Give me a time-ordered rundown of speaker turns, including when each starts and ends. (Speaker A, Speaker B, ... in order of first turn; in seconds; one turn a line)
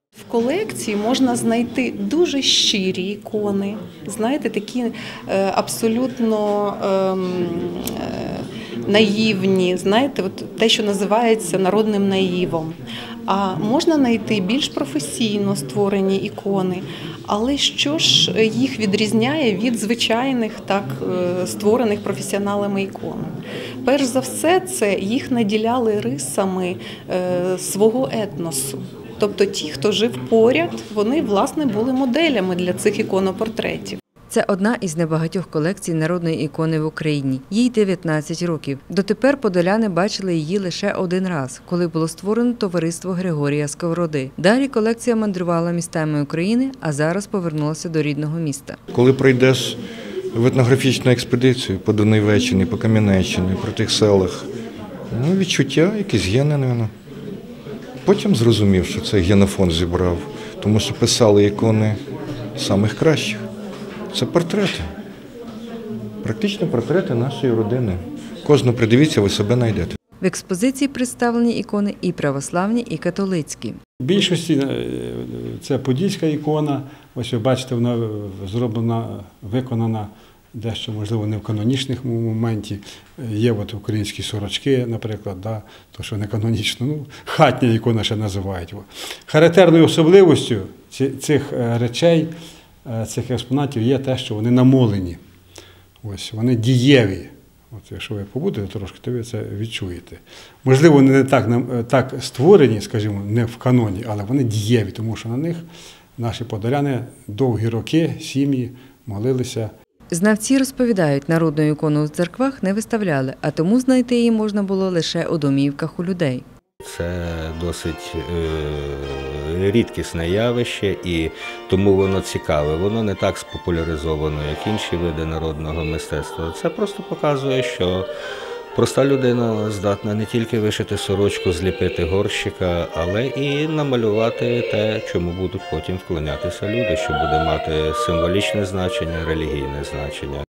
Speaker A: 0.2-34.0
Speaker B: 34.3-48.8
Speaker C: 48.9-49.8
Speaker C: 50.3-54.5
Speaker C: 55.1-56.9
Speaker C: 58.0-62.0
Speaker C: 62.5-63.4
Speaker C: 64.1-64.9
Speaker C: 66.2-70.0
Speaker B: 70.2-73.8
Speaker D: 74.0-92.3
Speaker D: 92.8-95.2
Speaker D: 96.0-109.7
Speaker B: 110.1-116.4
Speaker E: 116.8-128.1
Speaker E: 128.7-140.4